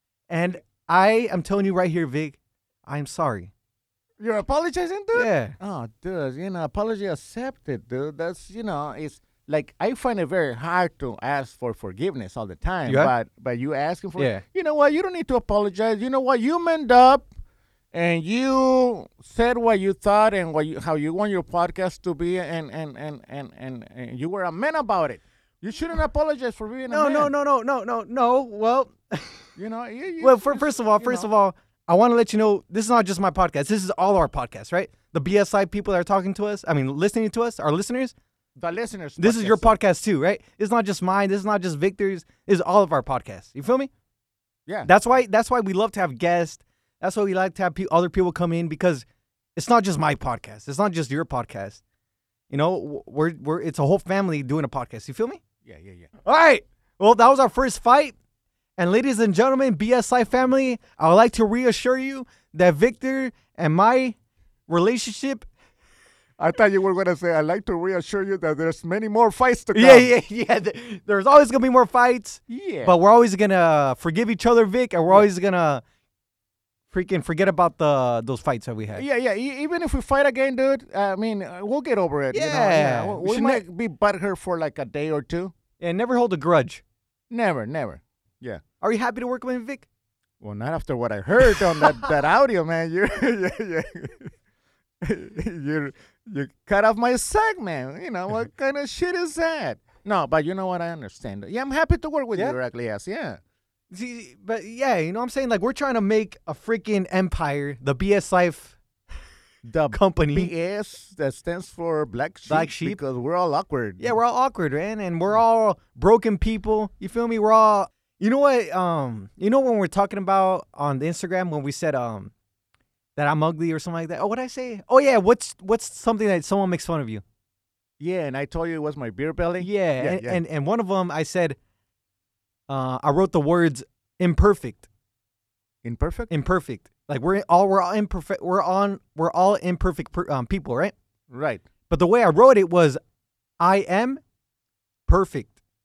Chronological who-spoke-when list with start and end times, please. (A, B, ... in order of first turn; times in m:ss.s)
0:00.3-0:03.5 A
0:04.2-0:17.3 B
0:05.1-0:05.5 A
0:12.9-0:13.1 A
0:14.2-0:14.4 A
0:17.9-0:27.3 B
0:26.9-0:29.4 A
0:29.6-0:31.3 B
0:30.2-0:38.1 A
0:38.6-0:39.8 B
0:39.2-0:43.9 A
0:44.8-0:49.0 A
0:49.6-0:51.8 A
0:52.5-0:55.4 A
0:55.6-0:56.1 B
0:56.2-0:58.1 A
0:58.8-1:04.1 A
1:04.7-1:05.5 A
1:06.4-1:10.1 B
1:09.7-1:15.8 A
1:12.5-1:12.9 B
1:16.9-1:19.0 A
1:19.0-1:25.5 B
1:22.3-1:23.6 A
1:25.8-1:26.8 A
1:27.3-1:28.6 B
1:28.8-1:29.8 A
1:30.4-1:34.3 B
1:35.0-1:43.4 B
1:43.9-1:48.8 A
1:49.6-1:54.1 B
1:49.9-1:50.5 A
1:52.5-1:53.0 A
1:54.0-2:02.3 A
2:03.2-2:07.2 A
2:08.0-2:10.4 B
2:09.6-2:11.6 A
2:12.7-2:14.9 A
2:15.8-2:16.3 B
2:16.3-2:20.9 A
2:21.3-2:21.6 B
2:21.9-2:23.0 A
2:23.6-2:24.2 A
2:25.1-2:25.5 A